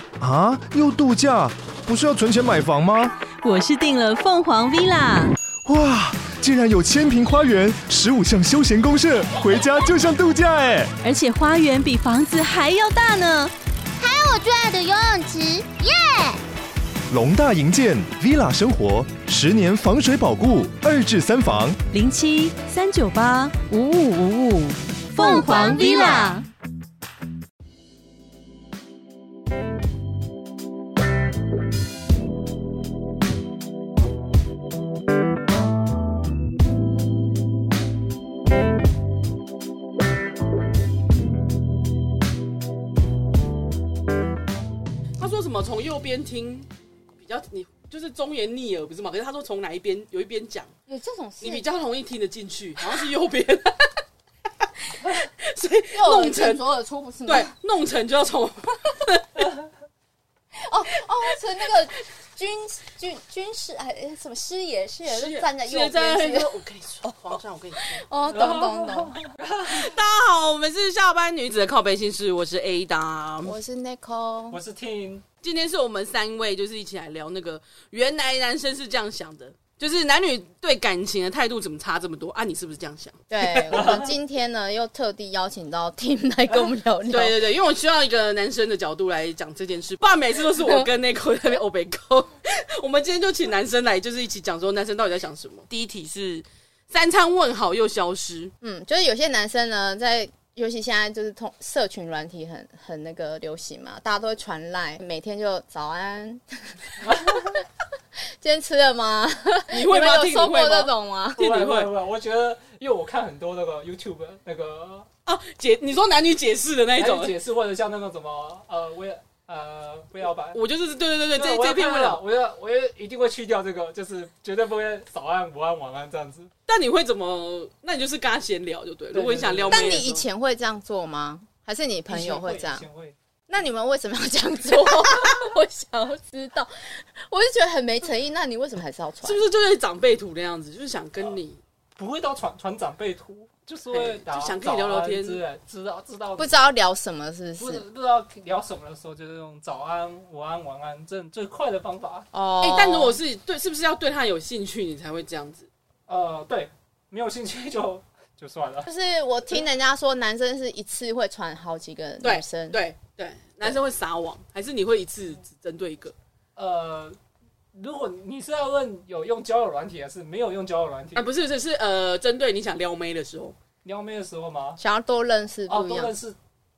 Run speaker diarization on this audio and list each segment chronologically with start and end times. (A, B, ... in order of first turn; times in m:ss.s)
0:00.2-0:03.2 A
0:03.4-0:05.4 B
0:05.6-0:10.9 A
0:11.0-0:13.5 B
0:14.0-0:16.4 C
0:17.1-0:21.8 A
0:21.9-0:26.5 B
0:25.2-0:26.4 C
0:45.2-0:50.7 D
0:50.9-0:51.6 E
0:51.4-0:54.0 D
0:55.2-0:56.7 D
0:55.9-0:57.5 E
0:57.3-0:59.5 D
1:00.6-1:06.5 E
1:05.1-1:08.1 D
1:07.8-1:09.2 E
1:08.3-1:09.9 F
1:09.7-1:13.6 D
1:13.4-1:14.6 E
1:14.5-1:15.2 F
1:15.4-1:24.1 D
1:23.3-1:27.4 E
1:23.7-1:24.1 F
1:27.1-1:38.5 D
1:38.6-1:47.6 E
1:47.0-1:47.6 F
1:48.4-1:51.4 E
1:49.7-1:51.9 D
1:51.4-1:55.1 F
1:55.3-1:57.4 D
1:57.0-2:00.6 F
2:00.5-2:02.2 D
2:01.3-2:06.5 F
2:06.7-2:10.2 D
2:09.1-2:10.0 F
2:09.7-2:12.8 E
2:12.1-2:13.2 F
2:13.5-2:19.4 E
2:19.2-2:21.6 D
2:22.0-2:26.5 F
2:23.9-2:25.4 D
2:26.4-2:27.8 E
2:27.6-2:32.3 F
2:32.3-2:33.2 E
2:32.6-2:35.7 D
2:36.1-2:38.9 F
2:38.9-2:42.8 E
2:42.2-2:46.1 D
2:46.6-2:47.2 F
2:47.7-2:51.3 F
2:51.2-2:53.6 D
2:53.8-2:54.8 F
2:54.8-2:56.1 E
2:55.7-2:56.4 F